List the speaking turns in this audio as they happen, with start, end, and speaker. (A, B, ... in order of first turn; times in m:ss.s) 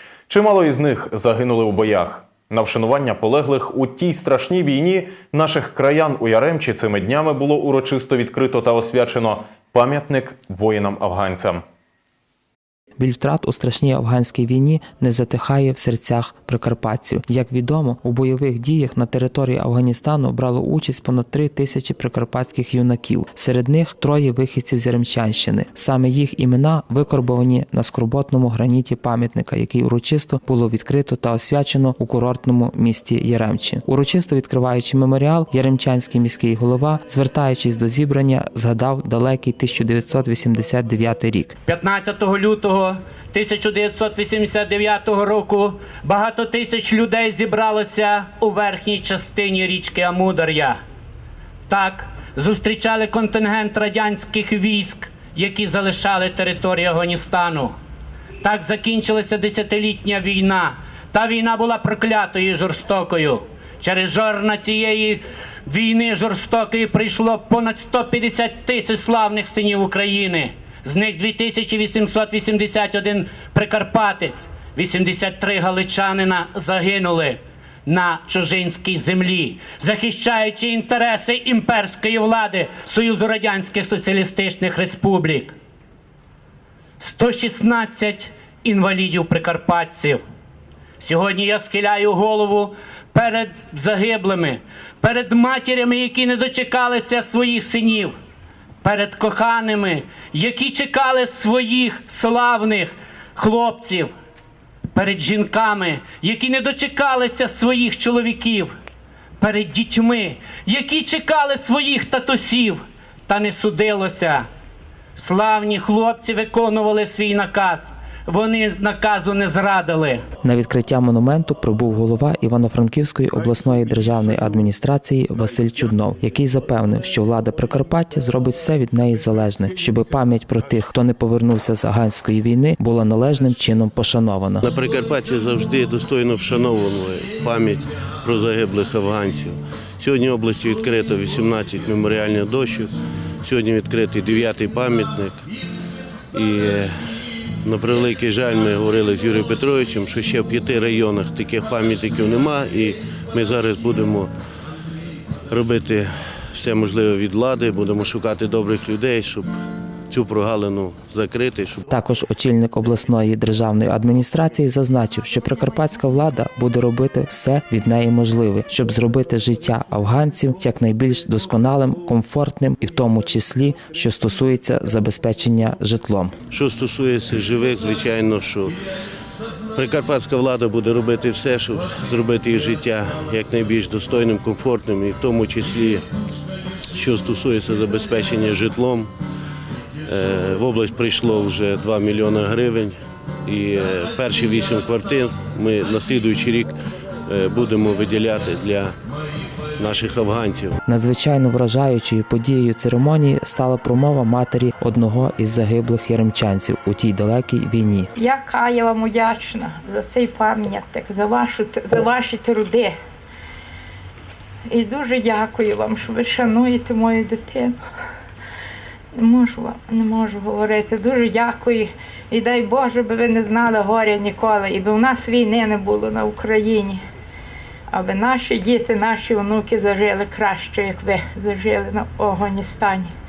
0:00.3-0:11.6 A
0:13.0-0:41.5 B
0:41.7-0:50.8 C
0:51.7-0:57.7 C
0:58.4-1:25.5 C
1:27.0-1:30.2 C
1:31.0-1:38.1 C
1:38.8-1:44.1 C
1:44.9-1:48.7 C
1:49.4-1:54.4 C
1:55.2-2:00.2 C
2:00.4-2:14.6 B
2:14.6-2:25.4 D
2:26.3-2:26.9 D
2:27.6-2:34.3 D
2:35.5-2:39.5 D
2:40.1-2:41.8 D
2:41.9-2:56.4 B
2:56.5-2:58.8 D
2:59.7-3:06.0 D
3:06.9-3:09.1 D
3:10.1-3:12.9 D
3:13.4-3:16.7 D
3:17.3-3:18.9 D
3:19.8-3:20.8 D
3:20.9-3:28.1 B
3:28.2-3:32.9 E
3:34.7-3:37.8 E
3:39.2-3:47.0 E
3:47.9-3:53.1 E